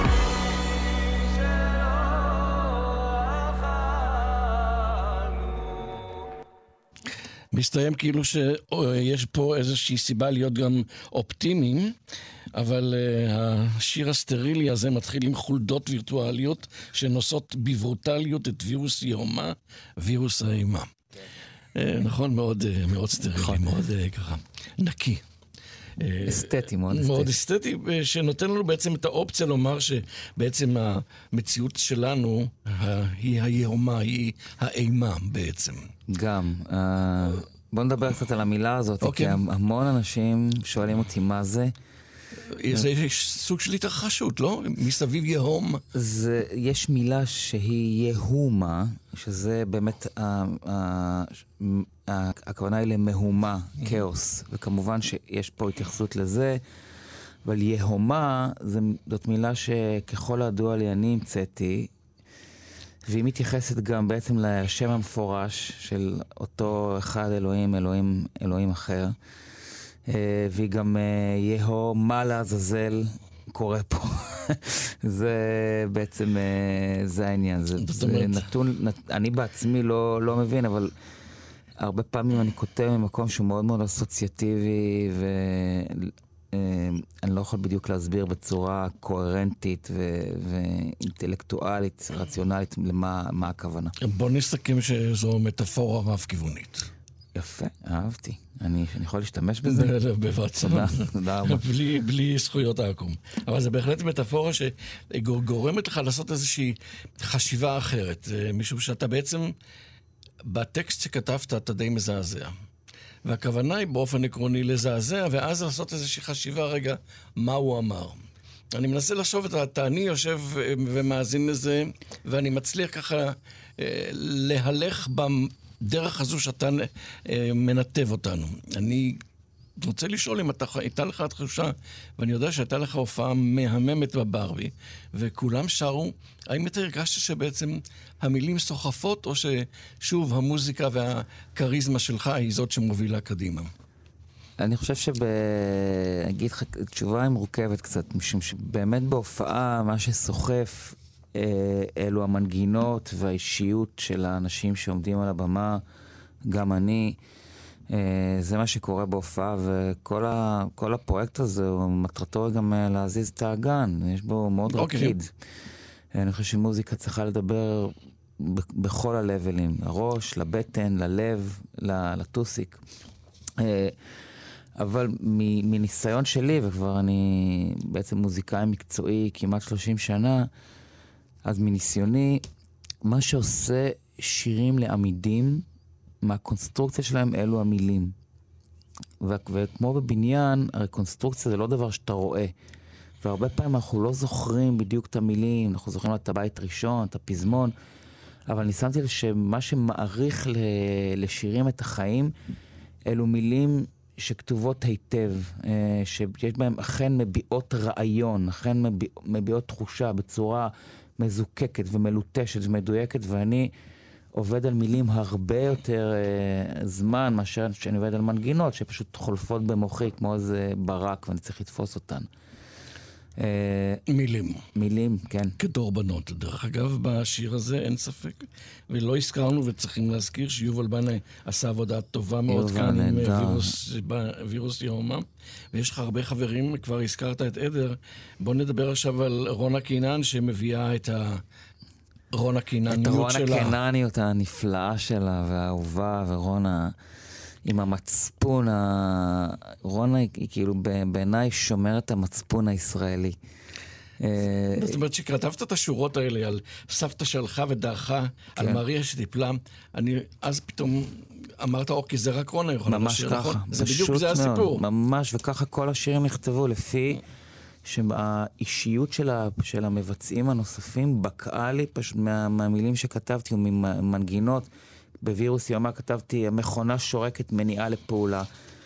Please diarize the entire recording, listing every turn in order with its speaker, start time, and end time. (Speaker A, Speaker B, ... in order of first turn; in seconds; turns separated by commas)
Speaker A: 7.5-11.9, Speaker A: 12.5-20.9, Speaker A: 21.7-25.2, Speaker B: 23.4-23.6, Speaker A: 26.0-35.9, Speaker B: 26.2-27.3, Speaker B: 36.1-41.7, Speaker A: 39.0-39.4, Speaker A: 42.5-45.8, Speaker B: 45.9-56.6, Speaker B: 57.4-61.9, Speaker B: 63.0-69.2, Speaker B: 70.0-80.9, Speaker A: 77.8-78.5, Speaker B: 81.8-93.9, Speaker A: 94.0-96.9, Speaker B: 97.3-99.9, Speaker A: 99.7-109.5, Speaker B: 100.6-101.6, Speaker A: 110.4-112.5, Speaker A: 113.2-129.2, Speaker A: 129.8-143.7, Speaker B: 144.6-155.8, Speaker B: 156.5-157.2, Speaker B: 157.9-165.3, Speaker A: 164.7-165.1, Speaker B: 166.1-172.8, Speaker B: 173.6-173.9, Speaker B: 174.8-180.5, Speaker B: 181.4-182.4, Speaker B: 183.0-185.6, Speaker B: 186.2-188.1, Speaker B: 189.2-192.5, Speaker B: 193.2-197.7, Speaker B: 198.5-202.3, Speaker B: 203.1-213.7, Speaker B: 214.3-222.3, Speaker B: 223.4-224.0, Speaker A: 224.1-224.6, Speaker B: 224.7-225.6, Speaker A: 225.6-241.4, Speaker B: 232.5-233.7, Speaker A: 242.3-243.8, Speaker B: 242.9-247.0, Speaker B: 247.6-253.4, Speaker B: 254.2-255.0, Speaker A: 254.8-264.8, Speaker B: 262.9-267.2, Speaker B: 267.8-274.7, Speaker B: 275.2-278.5